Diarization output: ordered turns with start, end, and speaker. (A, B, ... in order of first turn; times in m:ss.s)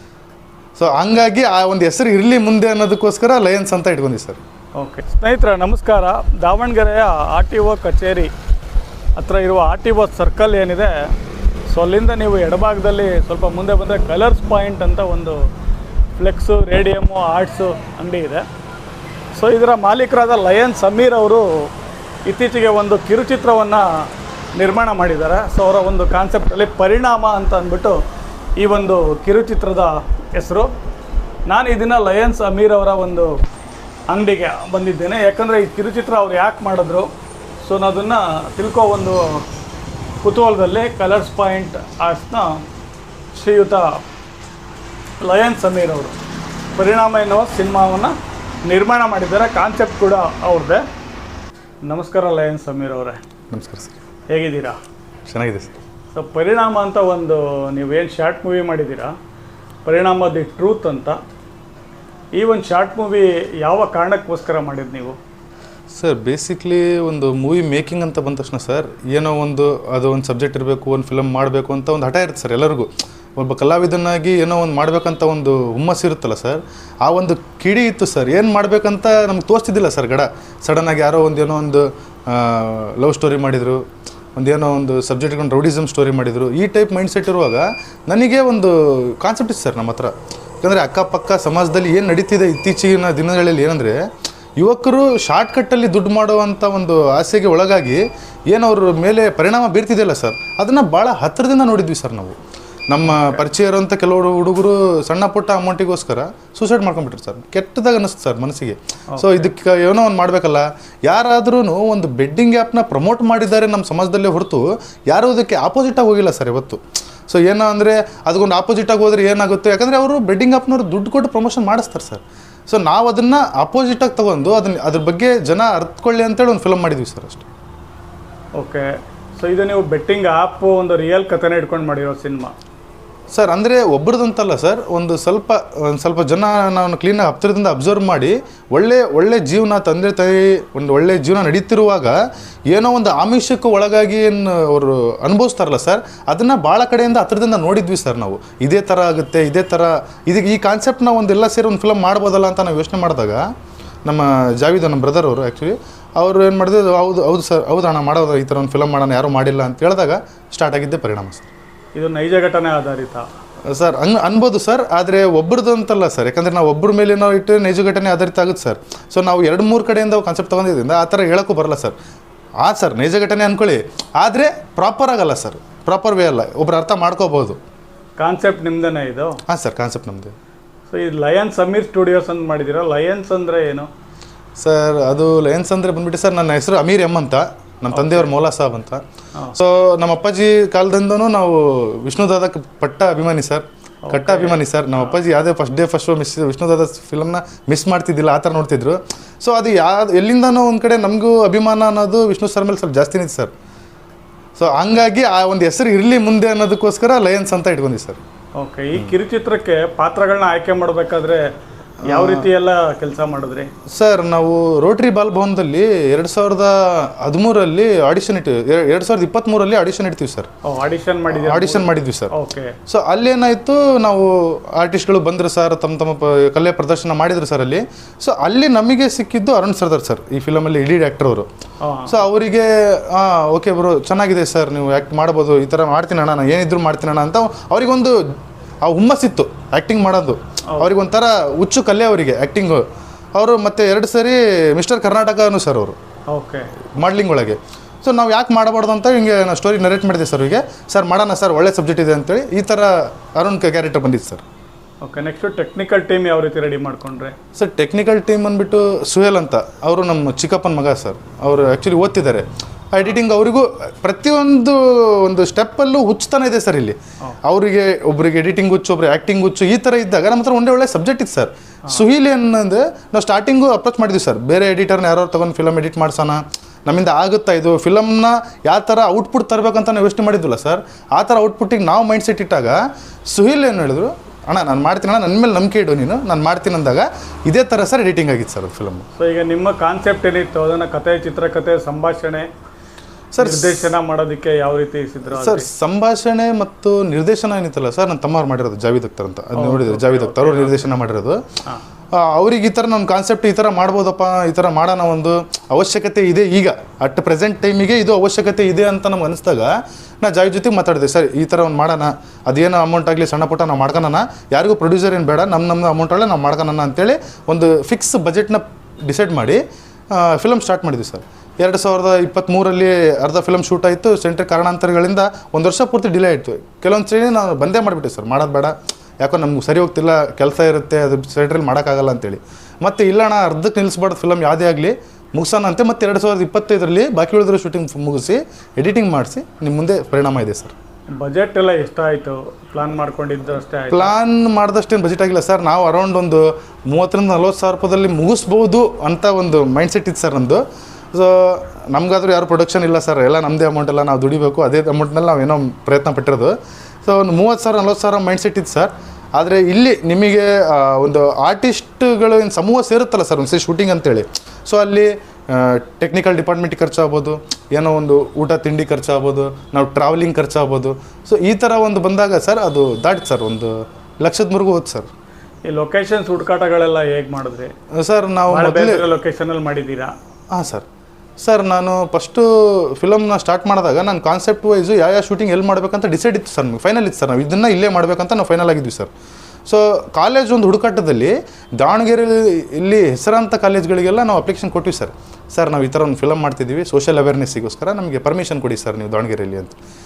0:00.8-0:04.4 A
0:04.8-0:08.3 B
0:09.2-0:10.9 B
0:11.7-0:15.4 B
0:16.2-0:18.4 B
0:19.4-0:21.7 B
0:22.3-0:28.0 B
0:28.6-0:30.7 B
0:31.5-0:33.4 B
0:34.1-0:37.1 B
0:37.6-0:39.4 B
0:40.2-0:42.6 B
0:43.3-0:44.0 B
0:45.2-0:46.2 B
0:46.8-0:50.8 B
0:51.8-0:53.2 B
0:53.5-0:54.0 A
0:54.3-0:54.8 B
0:55.3-0:55.8 A
0:56.1-0:59.1 B
0:59.9-1:01.2 B
1:02.4-1:05.2 B
1:05.9-1:23.8 A
1:24.4-1:30.1 A
1:30.6-1:34.0 A
1:34.6-1:42.4 A
1:42.9-2:07.4 A
1:43.0-1:43.4 B
1:49.1-1:49.5 B
2:08.6-2:08.8 B
2:09.4-2:12.5 B
2:13.3-2:22.2 A
2:22.7-2:33.4 A
2:34.1-2:41.5 A
2:42.0-2:43.3 B
2:43.7-2:52.0 A
2:52.6-2:57.6 A
2:58.2-2:59.4 B
2:59.5-3:00.4 A
3:00.9-3:03.9 B
3:04.6-3:09.0 A
3:07.9-3:08.3 B
3:09.6-3:23.5 A
3:14.1-3:15.2 B
3:24.6-3:28.2 A
3:28.6-3:31.4 B
3:32.0-3:33.7 B
3:32.1-3:32.5 A
3:33.9-3:40.5 A
3:40.7-3:42.7 B
3:41.3-3:42.3 A
3:42.9-3:51.5 A
3:51.8-3:52.2 B
3:52.1-4:02.8 A
4:03.4-4:06.0 A
4:06.3-4:06.7 B
4:07.0-4:14.4 A
4:15.0-4:17.4 B
4:17.6-4:42.8 A
4:43.3-4:49.0 A
4:49.2-4:52.5 B
4:53.3-4:53.9 A
4:53.4-4:55.7 B
4:55.3-5:01.4 A
4:59.6-5:00.9 B
5:02.1-5:09.7 A
5:10.2-5:19.6 A
5:20.1-5:40.7 A
5:41.1-5:44.2 B
5:43.9-5:50.6 A
5:51.1-6:15.1 A
6:15.7-6:17.7 B
6:18.0-6:19.0 A
6:18.5-6:20.1 B
6:20.5-6:20.8 A
6:21.4-6:29.1 A
6:29.7-6:39.8 A